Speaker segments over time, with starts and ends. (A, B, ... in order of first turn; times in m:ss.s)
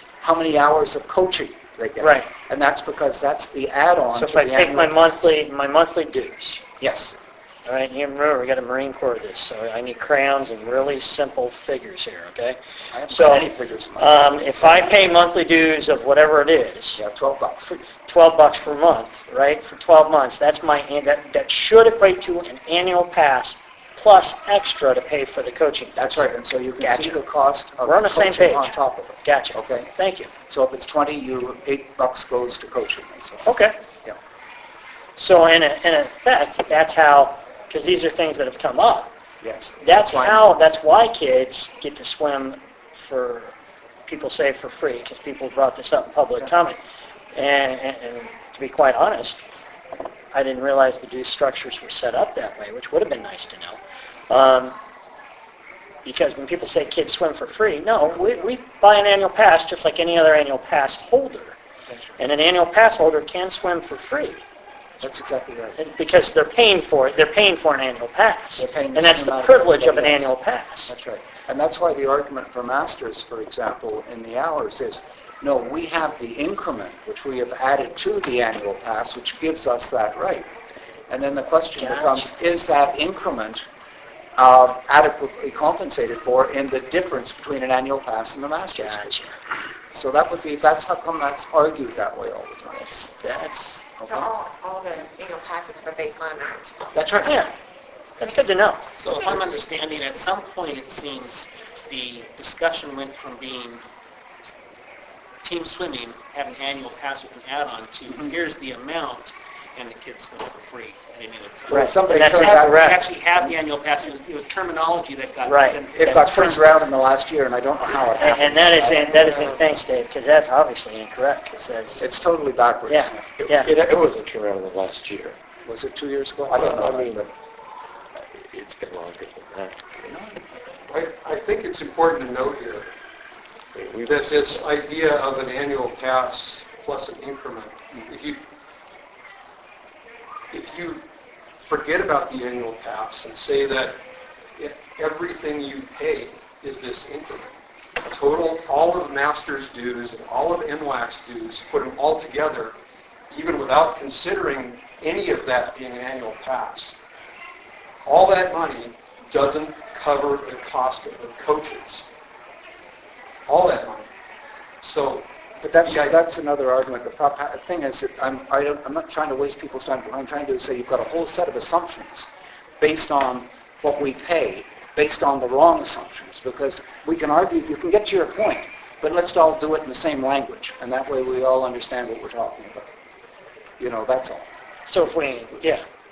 0:00.2-0:05.3 A
0:02.0-0:02.3 B
0:04.1-0:06.6 B
0:06.8-0:07.2 A
0:07.7-0:12.6 B
0:12.9-0:15.1 A
0:13.1-0:17.0 B
0:17.0-0:17.7 A
0:17.6-0:26.2 B
0:26.0-0:29.9 A
0:26.8-0:27.2 B
0:27.8-0:30.3 B
0:30.5-0:33.5 A
0:33.4-0:33.8 B
0:35.2-0:39.1 B
0:39.4-0:40.4 A
0:39.8-0:43.5 B
0:44.1-0:46.8 B
0:47.4-0:49.4 B
0:50.3-0:53.8 B
0:54.3-0:54.8 B
0:56.0-1:01.6 B
1:01.9-1:02.2 A
1:02.2-1:04.4 B
1:05.0-1:05.8 A
1:05.8-1:10.9 B
1:08.6-1:10.3 A
1:10.9-1:20.5 A
1:21.1-1:23.6 A
1:21.8-1:22.3 B
1:24.4-1:29.2 A
1:28.8-1:29.4 B
1:29.9-1:33.0 A
1:32.8-1:33.9 B
1:34.0-1:34.3 A
1:34.1-1:36.7 C
1:36.9-1:37.4 A
1:37.2-1:37.5 B
1:38.2-1:38.8 B
1:39.0-1:43.8 D
1:45.4-1:56.6 D
1:51.7-1:53.5 A
1:52.1-1:53.0 B
1:55.5-1:55.8 B
1:55.9-1:59.1 A
1:58.2-2:02.0 B
2:02.0-2:03.2 A
2:02.9-2:03.7 B
2:03.4-2:05.4 E
2:05.7-2:07.3 A
2:06.5-2:07.3 E
2:08.2-2:10.0 E
2:10.0-2:10.4 A
2:10.9-2:12.9 F
2:13.8-2:14.5 E
2:14.1-2:18.4 F
2:20.5-2:21.0 F
2:21.6-2:24.0 F
2:24.6-2:27.5 F
2:28.0-2:32.8 F
2:33.3-2:37.0 F
2:38.1-2:42.0 F
2:43.5-2:44.1 F
2:44.8-2:45.3 F
2:45.6-2:52.3 A
2:45.8-2:46.2 F
2:52.8-3:02.9 A
3:03.8-3:04.4 A
3:04.9-3:05.8 B